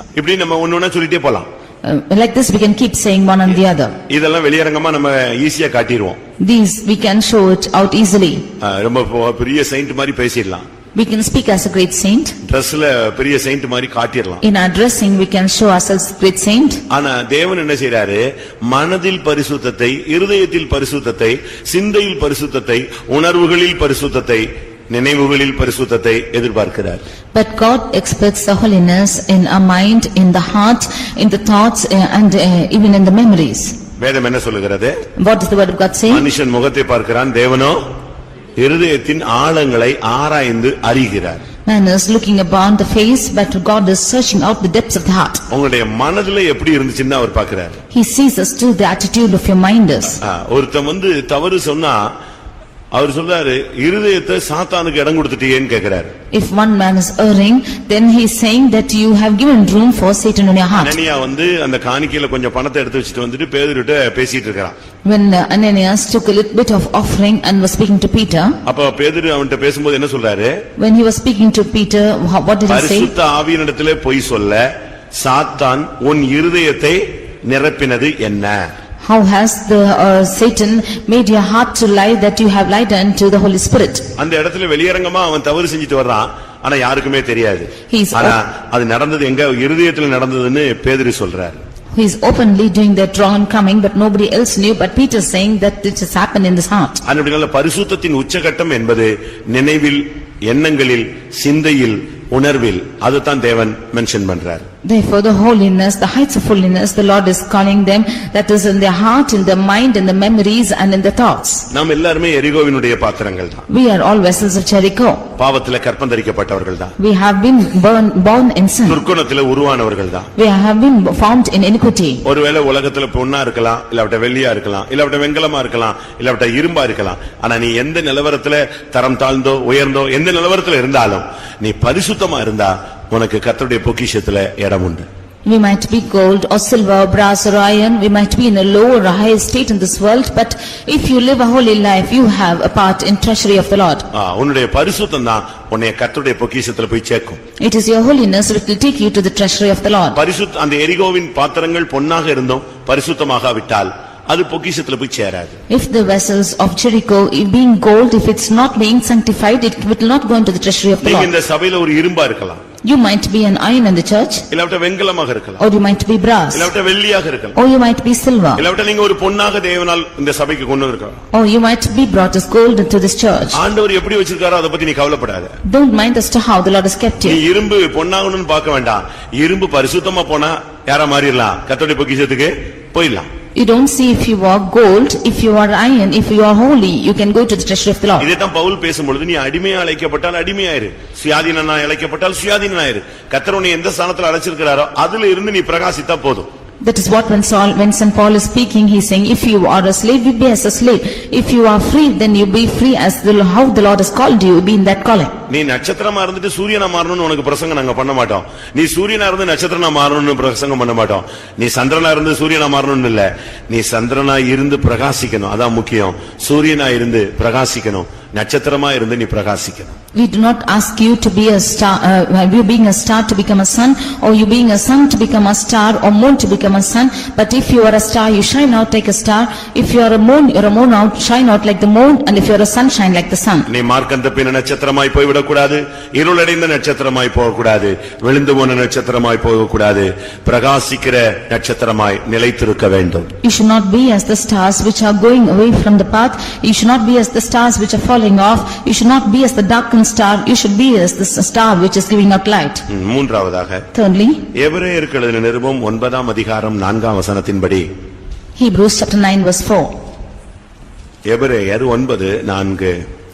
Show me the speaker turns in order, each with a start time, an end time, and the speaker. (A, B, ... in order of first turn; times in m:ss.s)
0:00.2-0:01.5 A
0:01.8-0:04.0 B
0:04.1-0:06.2 A
0:06.4-0:08.4 B
0:08.6-0:10.6 A
0:11.0-0:12.3 B
0:12.4-0:14.4 A
0:14.4-0:16.8 B
0:16.9-0:27.0 A
0:27.3-0:33.8 B
0:34.0-0:35.0 A
0:35.2-0:36.3 B
0:36.1-0:37.8 A
0:38.6-0:41.4 A
0:41.7-0:45.4 B
0:45.5-0:47.8 A
0:47.9-0:50.2 B
0:50.2-0:52.1 A
0:52.9-0:56.1 A
0:56.3-1:01.0 B
1:00.8-1:04.8 A
1:05.0-1:08.6 B
1:08.6-1:10.6 A
1:10.8-1:13.1 B
1:12.7-1:18.7 A
1:19.0-1:24.1 B
1:24.2-1:31.6 A
1:27.9-1:28.4 B
1:32.0-1:37.0 B
1:37.0-1:44.6 A
1:44.8-1:51.7 B
1:51.7-1:53.6 A
1:53.7-1:55.2 B
1:55.4-1:57.0 A
1:57.0-1:59.0 B
1:58.9-2:00.3 A
2:00.4-2:02.2 B
2:02.2-2:15.1 A
2:15.4-2:24.1 B
2:24.1-2:27.4 A
2:27.6-2:30.2 B
2:30.2-2:35.6 A
2:35.7-2:41.3 B
2:41.0-2:42.6 A
2:42.8-2:44.4 B
2:44.5-2:45.6 A
2:45.6-2:46.7 B
2:46.5-2:47.6 A
2:47.6-2:48.6 B
2:48.6-2:51.2 A
2:51.3-2:53.6 B
2:53.6-2:55.6 A
2:55.7-2:57.4 B
2:57.2-3:03.3 A
3:03.6-3:08.3 B
3:08.2-3:16.5 A
3:16.8-3:25.4 B
3:25.5-3:39.9 A
3:40.1-3:53.7 B
3:53.7-4:03.3 A
4:03.4-4:12.8 B
4:12.9-4:13.8 A
4:13.9-4:14.4 B
4:14.6-4:17.9 A
4:18.6-4:19.9 B
4:21.3-4:23.0 A